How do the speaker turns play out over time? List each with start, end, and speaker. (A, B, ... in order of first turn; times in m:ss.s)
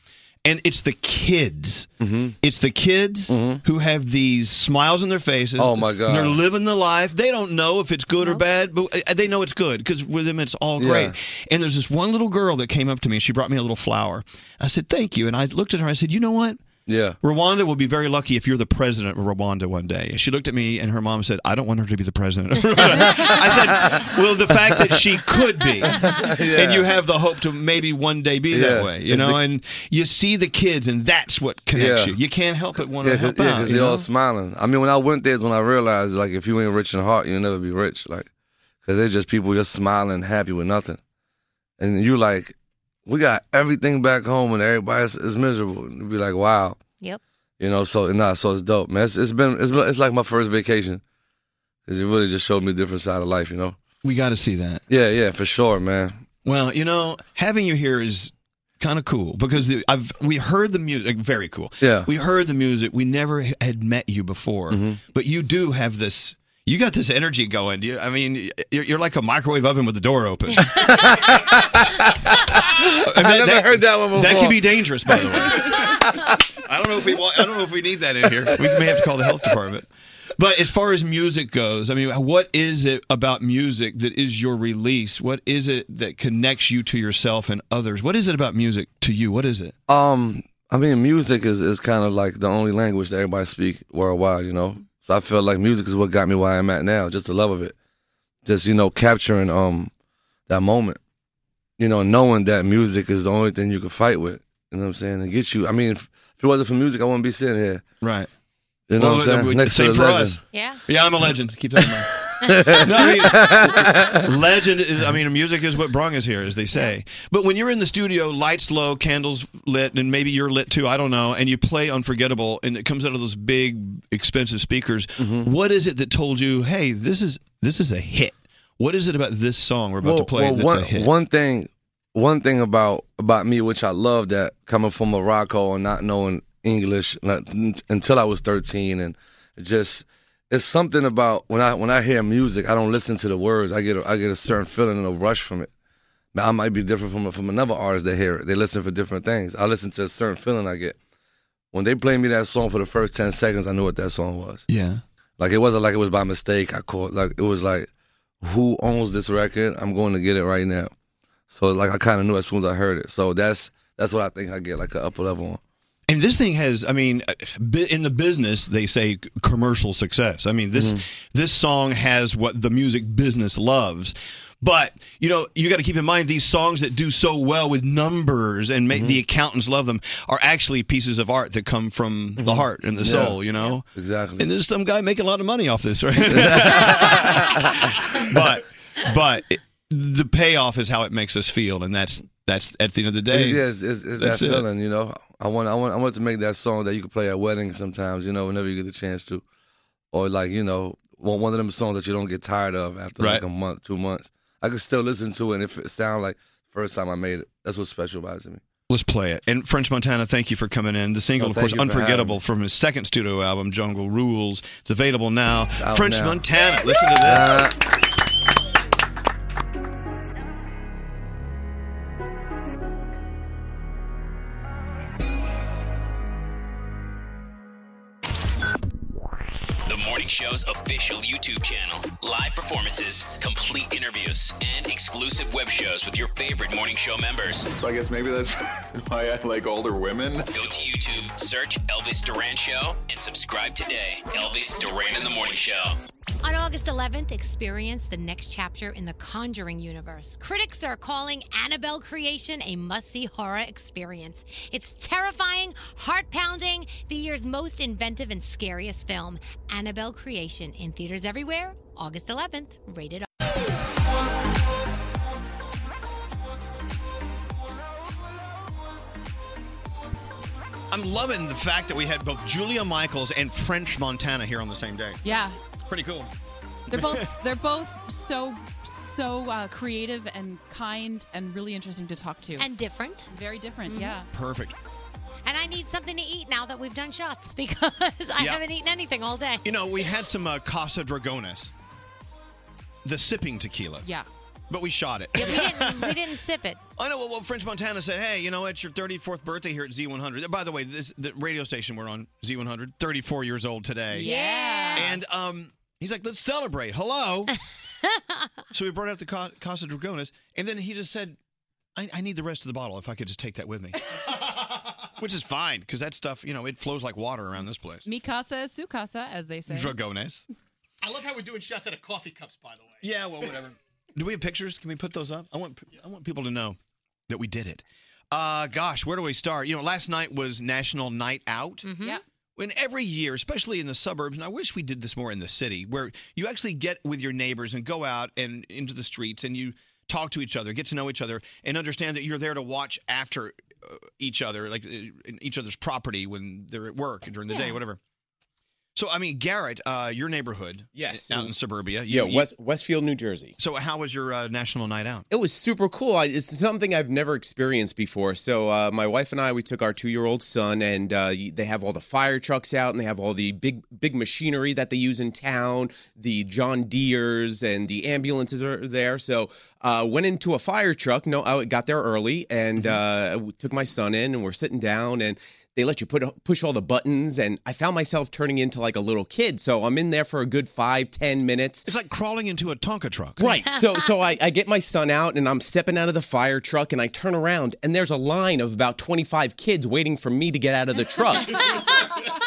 0:00.4-0:01.9 A
0:02.0-0:02.4 B
0:02.4-0:16.6 A
0:03.3-0:03.6 B
0:05.6-0:06.4 B
0:10.8-0:11.1 B
0:16.8-0:17.2 B
0:17.2-0:34.1 A
0:23.1-0:24.0 B
0:24.7-0:25.0 B
0:26.0-0:27.0 B
0:28.5-0:29.4 B
0:31.7-0:32.1 B
0:33.0-0:38.3 B
0:38.8-0:41.0 B
0:41.8-0:42.5 B
0:43.0-0:46.8 B
0:47.6-0:51.0 B
0:51.8-0:53.8 B
0:54.0-0:54.8 A
0:54.9-0:56.2 B
0:56.4-1:11.4 A
1:01.8-1:02.1 B
1:04.7-1:05.0 B
1:10.7-1:15.2 B
1:12.6-1:16.0 A
1:15.9-1:16.3 B
1:16.6-1:29.7 A
1:18.5-1:19.0 B
1:29.9-1:37.7 B
1:38.4-1:39.9 B
1:40.5-1:41.0 B
1:41.8-1:47.8 B
1:48.0-1:48.3 A
1:48.9-1:50.4 B
1:49.0-1:52.2 A
1:50.5-1:50.8 C
1:52.4-1:53.5 C
1:52.4-1:54.3 B
1:52.7-2:11.1 A
2:05.2-2:05.5 B
2:10.0-2:25.7 B
2:26.3-2:31.0 B
2:31.7-2:34.6 B
2:34.7-2:35.0 A
2:35.4-2:37.9 B
2:38.4-2:40.9 B
2:41.5-2:45.6 B
2:46.1-3:13.6 A
2:50.7-2:51.0 B
2:58.9-2:59.2 B
3:02.4-3:03.4 B
3:03.9-3:04.4 B
3:06.3-3:08.0 B
3:13.3-3:19.4 B
3:14.2-3:14.6 A
3:20.1-3:28.6 B
3:23.2-3:23.4 A
3:28.9-3:37.7 A
3:31.4-3:32.4 B
3:35.8-3:36.4 B
3:37.2-3:37.8 B
3:49.8-3:57.7 D
3:57.7-4:00.5 E
4:00.5-4:06.0 D
4:06.4-4:23.3 C
4:30.9-4:35.2 A
4:35.2-4:35.6 F
4:35.8-4:36.3 A
4:36.9-4:42.7 F
4:36.9-4:37.3 A
4:42.6-4:43.3 C
4:43.3-4:44.3 F
4:43.8-4:44.1 C
4:44.3-4:44.7 A
4:45.4-4:49.7 C
4:49.6-4:51.7 A
4:53.0-4:54.1 A
4:54.7-4:56.2 A
4:55.3-4:56.8 C
4:57.0-5:04.3 A
5:04.1-5:05.1 F
5:04.2-5:05.2 C
5:04.9-5:07.5 A
5:08.0-5:08.4 C
5:08.7-5:11.4 A
5:12.0-5:14.0 A
5:15.2-5:18.0 A
5:18.0-5:19.9 F
5:19.7-5:20.4 A
5:21.0-5:23.1 G
5:23.0-5:26.8 A
5:27.3-5:31.9 A
5:31.8-5:32.2 C
5:32.6-5:48.0 A
5:49.0-5:52.5 A
5:50.9-5:51.5 H
5:52.1-5:53.5 H
5:53.6-5:55.3 A
5:55.3-6:21.9 H
6:21.8-6:23.6 A
6:23.4-6:31.9 H
6:23.6-6:23.9 C